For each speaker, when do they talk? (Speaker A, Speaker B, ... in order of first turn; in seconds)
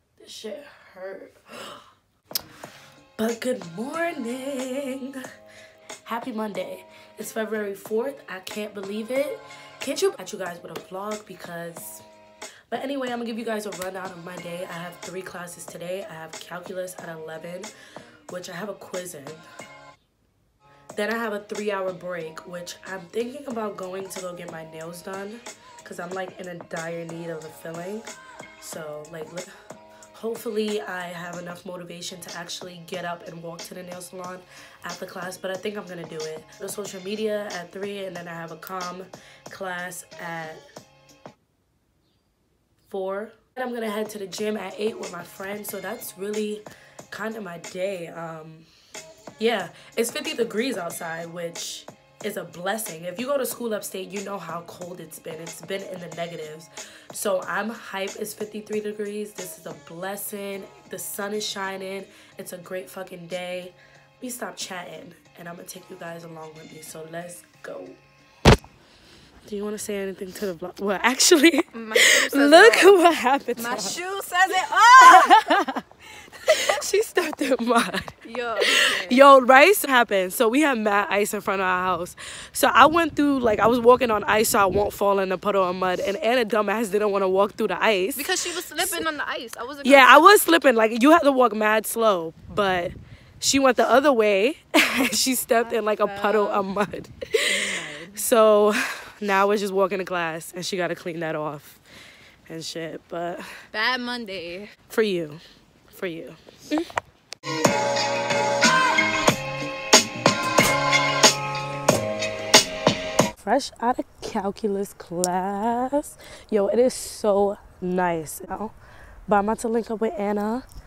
Speaker A: 0.2-1.8, 3.2-5.2, 6.0-12.0, 12.7-17.7, 18.3-19.4, 20.9-28.1, 28.6-29.5, 30.1-40.6, 42.9-48.7, 49.4-68.0, 69.5-74.0, 75.0-75.8, 76.4-89.0, 89.8-97.5, 98.1-101.8, 102.5-103.5, 104.9-105.4, 105.9-106.9, 113.4-118.7, 119.3-120.6
Speaker B: 71.7-73.0, 73.5-75.4, 78.2-79.2, 88.1-90.3, 95.6-96.6, 97.5-98.2, 103.7-104.7